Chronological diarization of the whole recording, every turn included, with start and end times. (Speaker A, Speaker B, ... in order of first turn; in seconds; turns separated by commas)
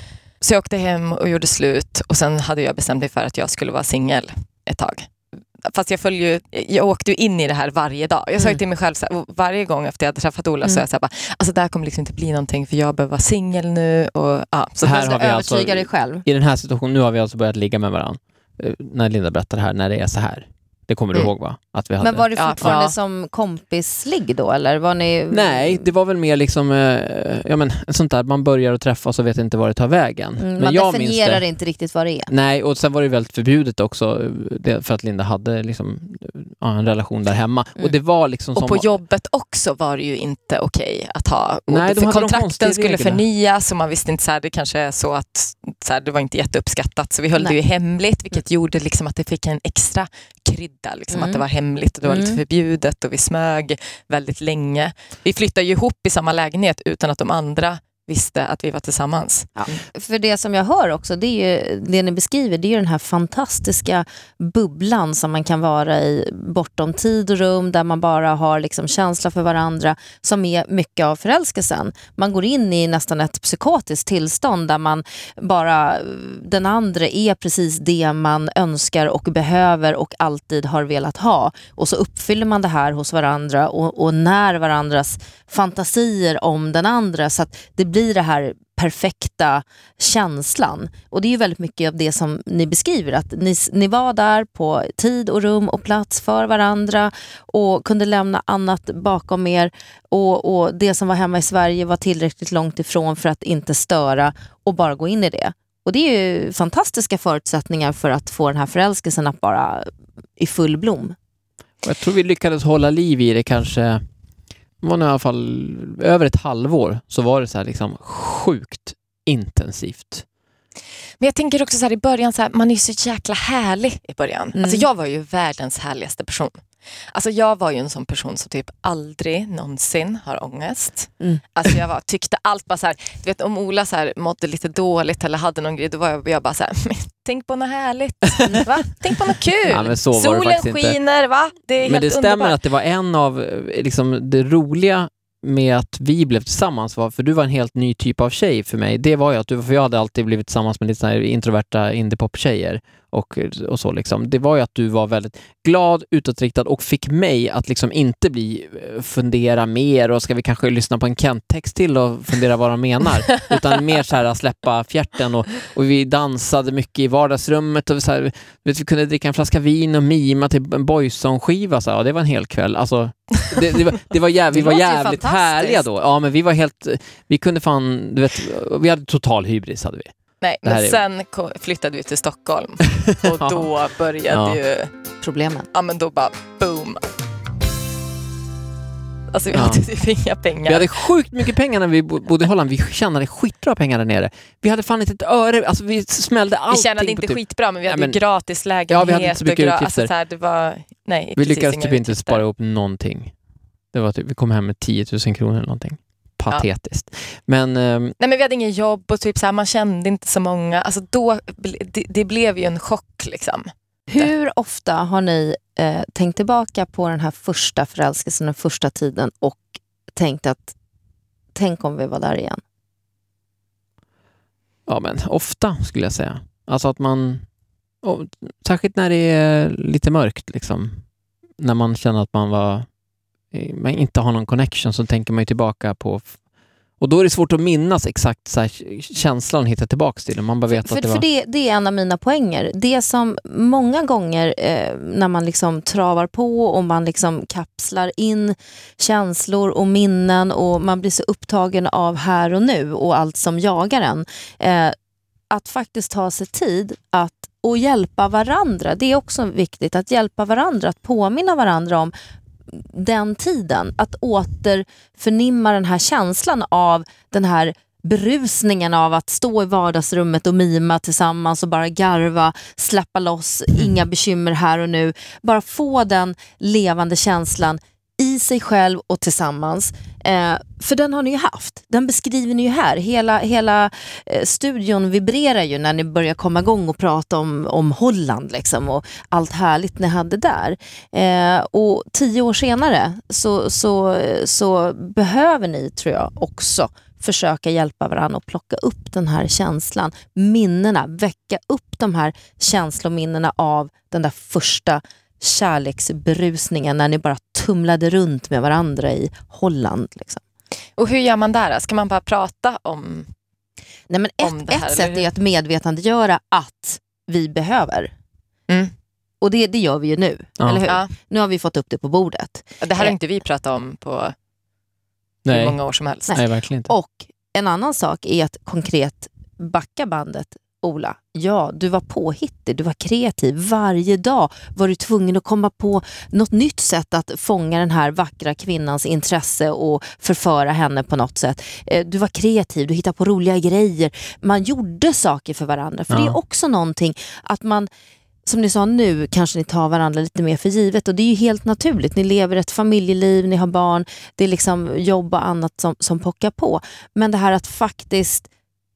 Speaker A: 0.4-5.1, Speaker A: 5.6-15.1, Speaker B: 14.8-22.8, Speaker C: 14.8-16.2, Speaker C: 22.0-25.9, Speaker A: 22.4-22.9, Speaker B: 25.3-31.4, Speaker C: 30.4-32.3, Speaker B: 32.3-39.0, Speaker A: 38.6-59.8, Speaker B: 41.7-43.2, Speaker C: 51.1-51.4, Speaker C: 52.1-52.4, Speaker C: 59.6-111.2, Speaker B: 111.8-114.0, Speaker B: 114.8-120.2, Speaker A: 121.2-142.6, Speaker C: 124.5-124.8, Speaker C: 138.4-138.9, Speaker B: 139.7-141.0, Speaker B: 141.8-180.1, Speaker C: 174.5-175.8, Speaker A: 180.4-184.9, Speaker B: 180.6-181.0, Speaker B: 183.0-183.7, Speaker B: 184.3-184.6, Speaker C: 185.2-185.7, Speaker A: 185.7-187.0, Speaker A: 189.3-191.1, Speaker B: 189.5-189.8, Speaker B: 190.7-198.2, Speaker A: 196.7-202.4, Speaker B: 198.9-200.1, Speaker B: 201.4-203.3, Speaker B: 203.9-208.2, Speaker A: 208.2-214.3, Speaker C: 214.1-220.7, Speaker C: 221.6-222.6, Speaker B: 224.9-227.4, Speaker B: 228.0-231.0, Speaker B: 231.6-232.9, Speaker B: 233.5-236.3, Speaker B: 237.0-241.2, Speaker C: 240.7-254.9, Speaker C: 255.5-262.1, Speaker C: 262.7-310.4, Speaker A: 311.0-313.3, Speaker C: 314.1-318.1, Speaker A: 314.4-315.3, Speaker C: 319.4-323.1, Speaker B: 320.6-320.9, Speaker A: 322.8-324.4, Speaker A: 325.4-326.4, Speaker B: 325.5-325.8, Speaker C: 326.3-347.9, Speaker B: 326.4-326.9, Speaker B: 346.1-346.4, Speaker C: 348.4-358.5